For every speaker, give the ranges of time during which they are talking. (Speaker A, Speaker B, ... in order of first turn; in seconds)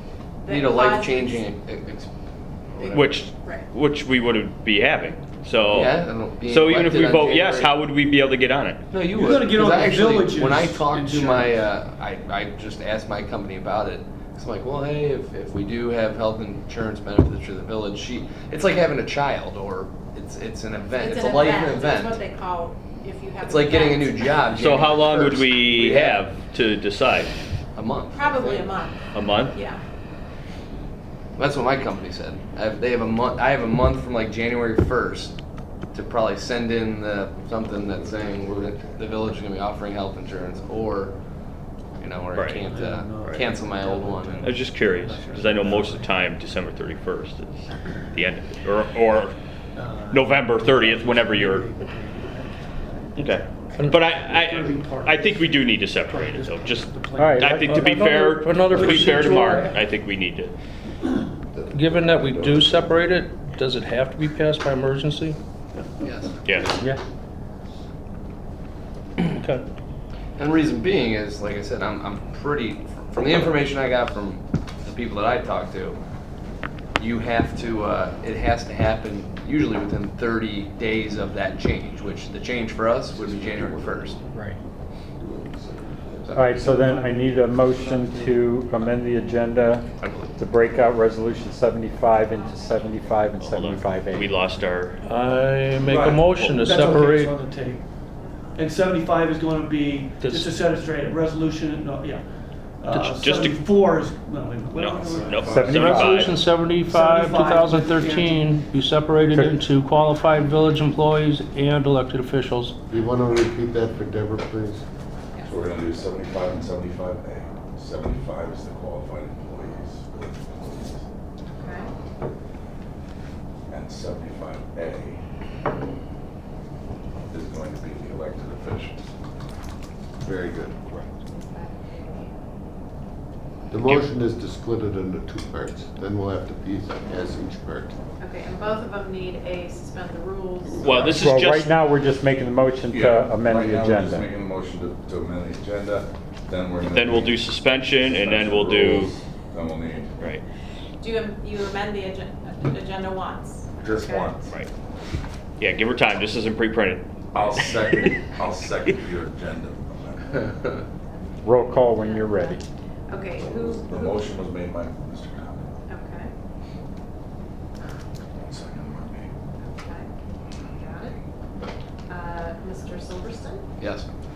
Speaker A: 0.4-1.5, 2.8-3.7, 20.9-24.6, 28.1-29.8, 98.2-98.6, 121.5-121.9, 131.2-132.3, 138.2-141.4, 151.0-154.3, 161.1-164.3, 165.9-166.3, 169.6-170.1, 170.7-171.2, 172.1-173.8
Speaker B: 0.5-2.1, 2.8-3.0, 5.7-7.7, 8.9-22.2, 23.4-26.2, 27.7-28.8, 31.4-35.3, 35.9-41.1, 42.0-44.5, 66.0-66.4, 70.4-76.0, 77.0-84.2, 90.0-90.3, 173.8-174.1
Speaker C: 2.9-8.8, 24.5-27.3, 29.1-29.6, 42.3-42.6, 44.4-49.3, 50.1-51.6, 53.1-60.5, 66.4-66.8, 93.4-95.0, 96.2-96.6, 103.2-103.5, 104.7-106.4, 140.7-141.7, 146.8-149.1, 155.6-158.2
Speaker D: 9.1-11.6, 42.7-46.1, 49.7-58.1, 58.7-59.7, 95.8-97.8, 98.5-102.2, 102.8-106.1, 106.8-108.5
Speaker E: 37.7-39.1, 61.5-63.0, 83.1-84.6, 85.2-88.3, 112.9-114.8, 130.2-130.8, 133.7-137.9
Speaker F: 57.1-58.4, 86.3-94.3, 105.4-106.2, 140.9-144.2, 161.4-162.6
Speaker G: 57.8-59.7, 61.7-65.4, 69.2-69.6, 95.0-97.3, 100.2-100.5, 102.9-103.2, 105.7-112.8
Speaker H: 115.4-121.0, 123.7-125.2, 127.3-129.0, 142.9-147.4, 148.0-150.2, 153.8-154.5, 157.3-160.5, 163.4-165.7, 168.4-169.3